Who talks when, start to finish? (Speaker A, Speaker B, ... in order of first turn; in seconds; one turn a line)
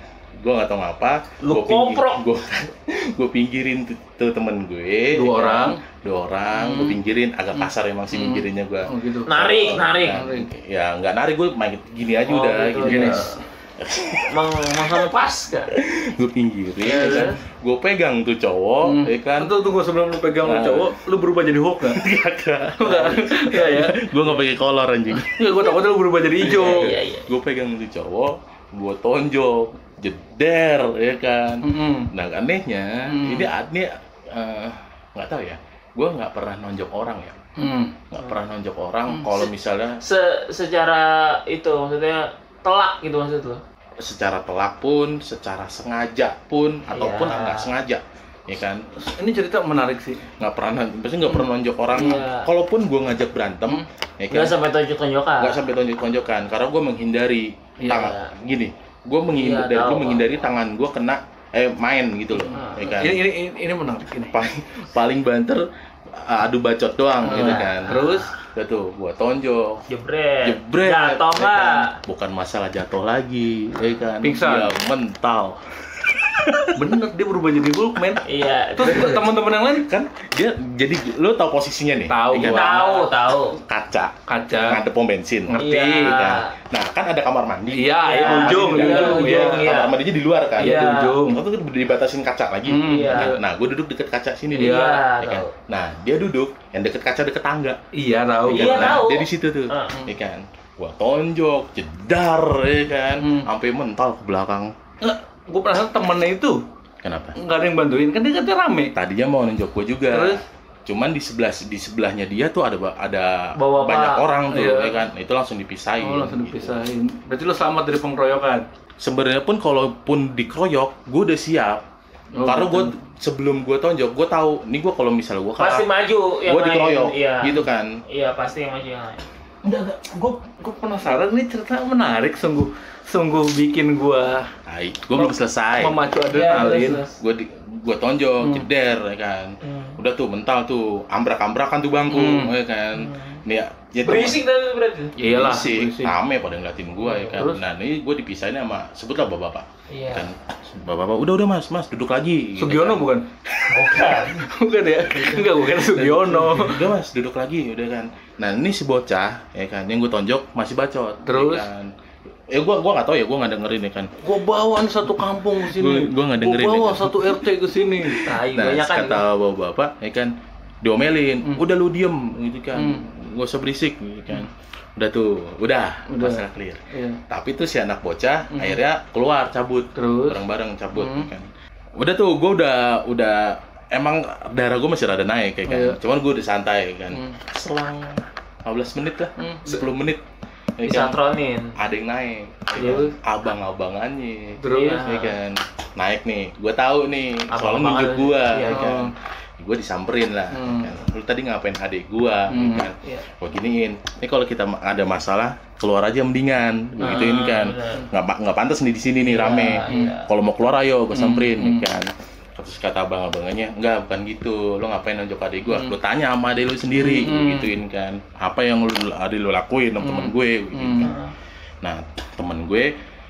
Speaker A: 0.4-15.1
Speaker B: 1.4-2.2
Speaker C: 5.1-5.8
Speaker C: 6.5-7.0
Speaker C: 7.6-10.5
Speaker B: 9.3-10.2
Speaker B: 12.3-13.4
Speaker C: 12.8-13.3
Speaker B: 14.3-15.7
Speaker A: 15.7-19.5
Speaker C: 16.8-17.3
Speaker B: 16.9-17.4
Speaker C: 18.8-22.0
Speaker A: 20.4-20.9
Speaker A: 21.8-25.7
Speaker C: 22.8-24.3
Speaker B: 22.8-23.2
Speaker C: 25.2-26.9
Speaker A: 26.4-37.4
Speaker B: 26.4-27.3
Speaker C: 31.6-32.1
Speaker C: 33.1-33.5
Speaker C: 37.6-38.0
Speaker A: 38.1-40.0
Speaker B: 40.0-43.6
Speaker A: 44.0-48.9
Speaker B: 46.9-47.7
Speaker C: 49.0-50.2
Speaker A: 50.4-54.6
Speaker B: 51.9-52.5
Speaker B: 54.3-55.6
Speaker A: 55.4-63.3
Speaker C: 57.8-58.1
Speaker B: 57.9-58.3
Speaker B: 59.3-60.5
Speaker C: 62.5-64.4
Speaker B: 62.5-63.0
Speaker A: 64.3-68.0
Speaker C: 67.2-68.3
Speaker B: 67.3-68.3
Speaker A: 68.5-69.8
Speaker B: 69.9-71.9
Speaker A: 70.4-76.9
Speaker C: 74.2-74.8
Speaker C: 76.8-78.2
Speaker B: 78.2-79.3
Speaker C: 78.8-79.9
Speaker A: 79.8-97.8
Speaker C: 82.1-83.1
Speaker B: 82.3-83.6
Speaker C: 84.3-84.8
Speaker C: 85.5-86.2
Speaker B: 85.6-86.5
Speaker C: 87.7-89.7
Speaker B: 88.0-90.0
Speaker B: 90.6-91.2
Speaker C: 90.6-91.4
Speaker C: 92.7-93.4
Speaker B: 92.8-93.3
Speaker B: 94.5-95.5
Speaker C: 94.5-95.0
Speaker C: 97.9-99.1
Speaker B: 98.5-100.0
Speaker A: 98.5-104.7
Speaker C: 103.2-103.5
Speaker C: 105.0-106.6
Speaker A: 107.0-107.4
Speaker C: 107.4-108.9
Speaker A: 109.0-116.8
Speaker C: 110.1-110.4
Speaker B: 113.6-114.2
Speaker C: 114.5-115.0
Speaker C: 116.0-118.7
Speaker A: 119.0-121.8
Speaker C: 122.3-122.9
Speaker A: 122.5-125.9
Speaker B: 125.6-127.6
Speaker A: 126.5-128.0
Speaker B: 128.1-129.2
Speaker C: 129.6-134.5
Speaker A: 134.7-144.4
Speaker C: 135.2-137.0
Speaker B: 136.3-137.2
Speaker C: 138.4-138.7
Speaker B: 139.6-140.0
Speaker C: 142.1-142.5
Speaker B: 142.9-143.4
Speaker B: 144.0-145.1
Speaker C: 145.2-146.1
Speaker A: 145.2-153.1
Speaker C: 147.1-147.6
Speaker B: 149.9-150.3
Speaker C: 152.6-153.3
Speaker B: 153.7-154.5
Speaker C: 154.2-156.9
Speaker A: 155.1-161.9
Speaker C: 161.2-161.7
Speaker A: 162.5-164.1
Speaker C: 164.2-168.3
Speaker A: 165.6-167.5
Speaker A: 168.1-190.2
Speaker B: 168.2-169.2
Speaker C: 172.7-173.0
Speaker C: 176.1-177.2
Speaker C: 178.5-178.8
Speaker C: 180.0-180.4
Speaker C: 180.9-181.3
Speaker C: 185.7-186.0
Speaker C: 189.4-189.8
Speaker A: 190.8-191.2
Speaker B: 190.8-191.8
Speaker A: 191.8-221.2
Speaker C: 192.8-193.1
Speaker C: 194.6-195.2
Speaker B: 194.7-195.3
Speaker B: 197.5-198.9
Speaker C: 198.7-199.1
Speaker C: 200.5-200.9
Speaker C: 202.5-203.2
Speaker B: 207.0-208.0
Speaker B: 209.2-210.3
Speaker C: 209.9-210.2
Speaker C: 211.1-211.9
Speaker C: 215.7-215.9
Speaker C: 217.0-217.7
Speaker C: 220.0-221.1
Speaker B: 221.0-221.3
Speaker A: 221.8-222.9